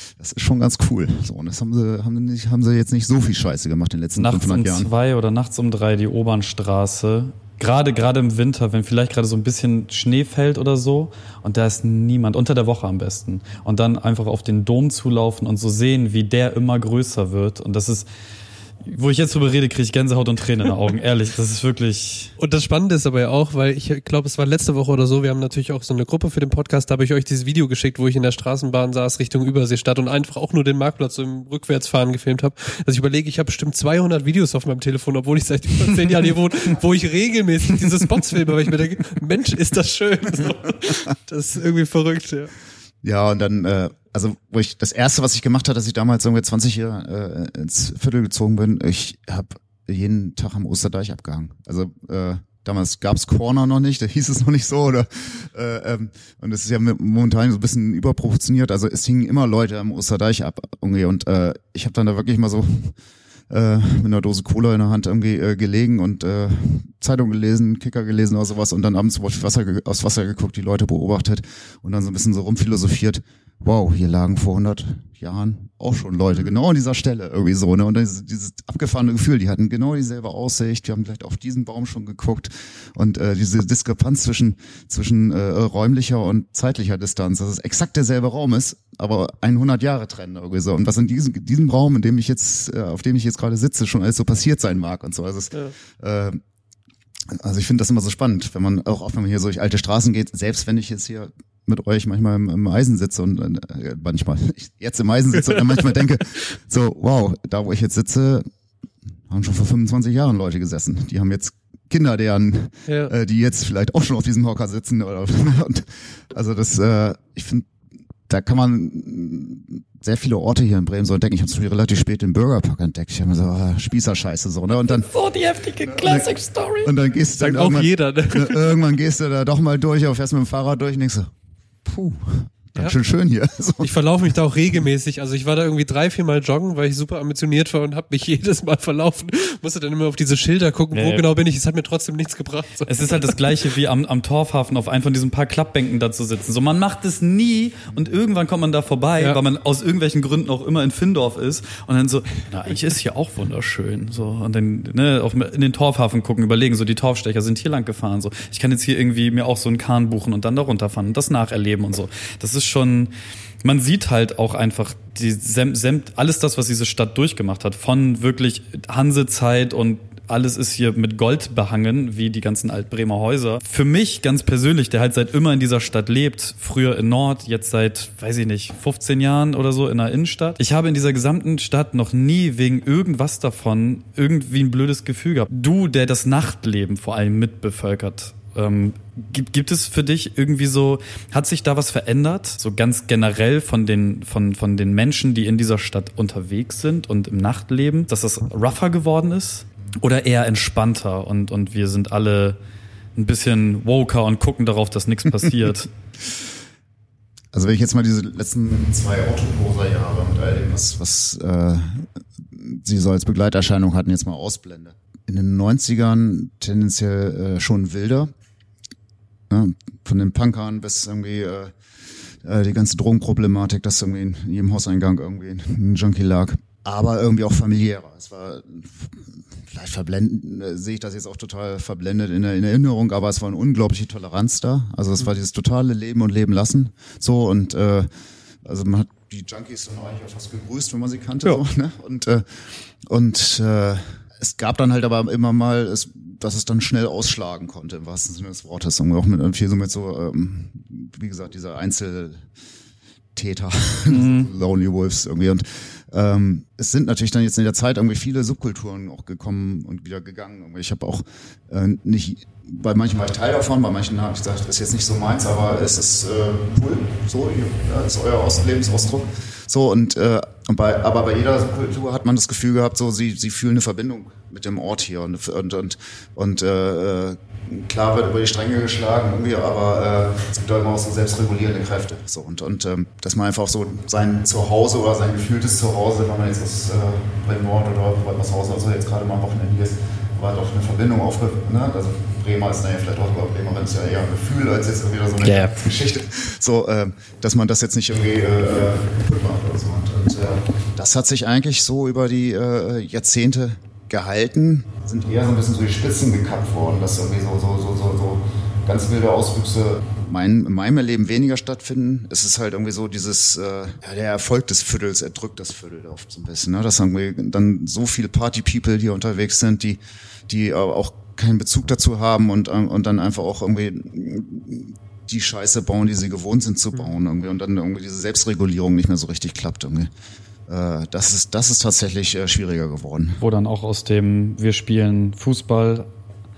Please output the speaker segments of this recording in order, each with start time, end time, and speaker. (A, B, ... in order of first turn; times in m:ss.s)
0:00.2-0:04.9 A
0:04.2-0:18.0 B
0:18.8-0:22.3 B
0:22.4-0:42.5 C
0:43.0-1:03.0 A
1:03.5-1:36.4 A
1:37.3-1:48.5 A
1:49.3-1:57.7 A
1:52.9-1:53.1 C
1:58.3-2:05.1 A
2:04.7-2:06.9 B
2:05.8-2:06.3 A
2:06.8-2:11.3 A
2:07.4-2:08.8 C
2:11.8-2:13.9 A
2:13.8-2:23.4 C
2:20.9-2:21.2 B
2:22.9-2:43.1 B
2:43.6-3:22.6 B
3:23.2-3:25.9 B
3:27.5-3:38.3 A
3:39.5-3:41.7 A
3:42.4-3:58.1 A
3:58.6-4:02.4 A
4:03.1-4:12.4 A
4:13.4-5:30.1 A
4:14.1-4:14.5 B
4:55.4-4:55.8 B
5:30.7-5:33.4 A
5:33.4-5:36.1 B